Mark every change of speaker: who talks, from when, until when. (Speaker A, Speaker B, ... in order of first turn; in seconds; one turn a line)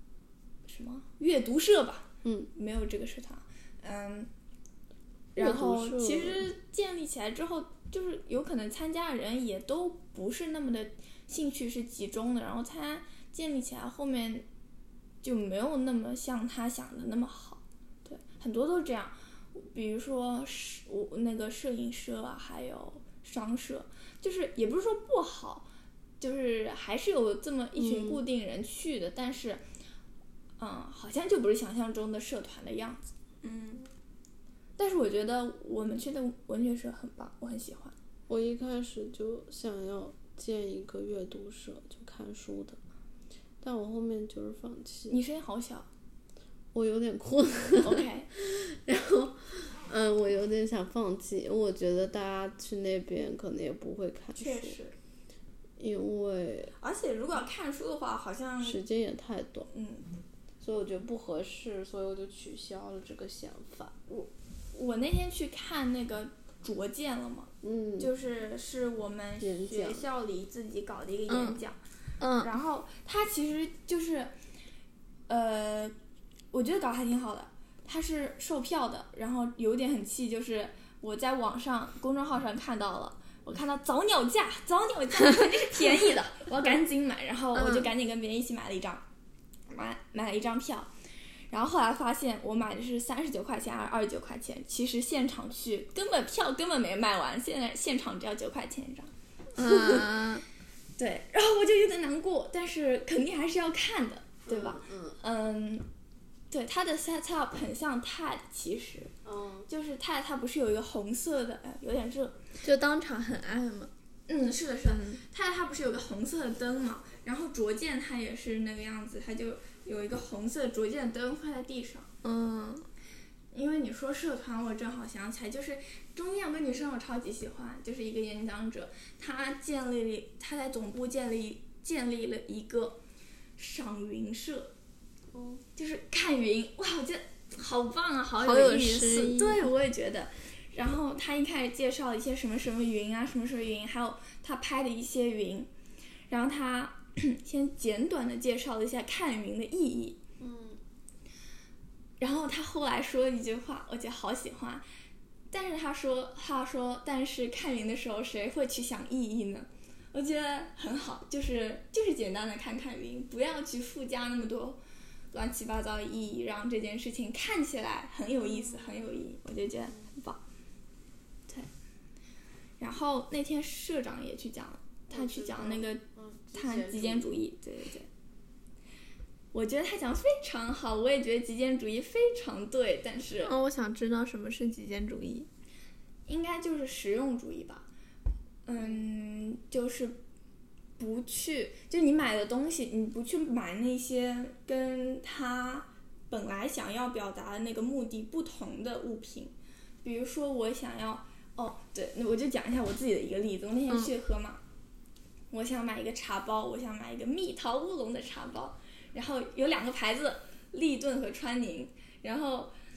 Speaker A: 0.7-4.3
Speaker B: 2.2-2.5
Speaker B: 5.3-6.5
Speaker A: 5.3-14.5
Speaker A: 15.2-25.7
Speaker A: 26.2-29.6
Speaker B: 27.8-28.2
Speaker A: 30.6-33.1
Speaker C: 33.4-33.9
Speaker A: 34.8-38.0
Speaker B: 38.3-42.8
Speaker B: 43.6-45.2
Speaker A: 45.1-45.9
Speaker B: 46.7-54.8
Speaker A: 47.8-48.3
Speaker A: 54.4-55.0
Speaker B: 55.8-56.7
Speaker A: 56.8-58.8
Speaker B: 58.6-59.7
Speaker A: 59.7-60.1
Speaker B: 60.6-64.0
Speaker A: 64.1-71.8
Speaker B: 67.6-68.1
Speaker B: 69.4-70.1
Speaker C: 71.3-71.6
Speaker C: 72.2-72.5
Speaker A: 72.4-74.3
Speaker A: 75.3-75.9
Speaker A: 76.5-89.0
Speaker C: 87.5-87.9
Speaker A: 89.7-90.9
Speaker A: 91.5-100.0
Speaker C: 99.5-100.5
Speaker A: 101.0-105.9
Speaker B: 104.5-105.2
Speaker A: 106.5-109.1
Speaker B: 109.2-109.7
Speaker A: 109.7-112.4
Speaker C: 112.6-113.9
Speaker A: 114.3-122.1
Speaker C: 114.9-115.2
Speaker C: 122.2-122.9
Speaker A: 123.5-133.0
Speaker A: 133.6-134.7
Speaker B: 135.3-135.6
Speaker A: 135.8-145.7
Speaker C: 138.4-139.7
Speaker A: 146.3-150.2
Speaker B: 150.4-150.8
Speaker A: 152.2-154.8
Speaker A: 155.5-164.8
Speaker A: 165.3-170.4
Speaker A: 172.8-176.0
Speaker B: 175.1-177.4
Speaker A: 176.5-178.1
Speaker A: 179.5-183.5
Speaker C: 183.4-185.5
Speaker A: 186.3-187.9
Speaker A: 188.7-190.2
Speaker A: 191.0-204.6
Speaker A: 205.5-212.7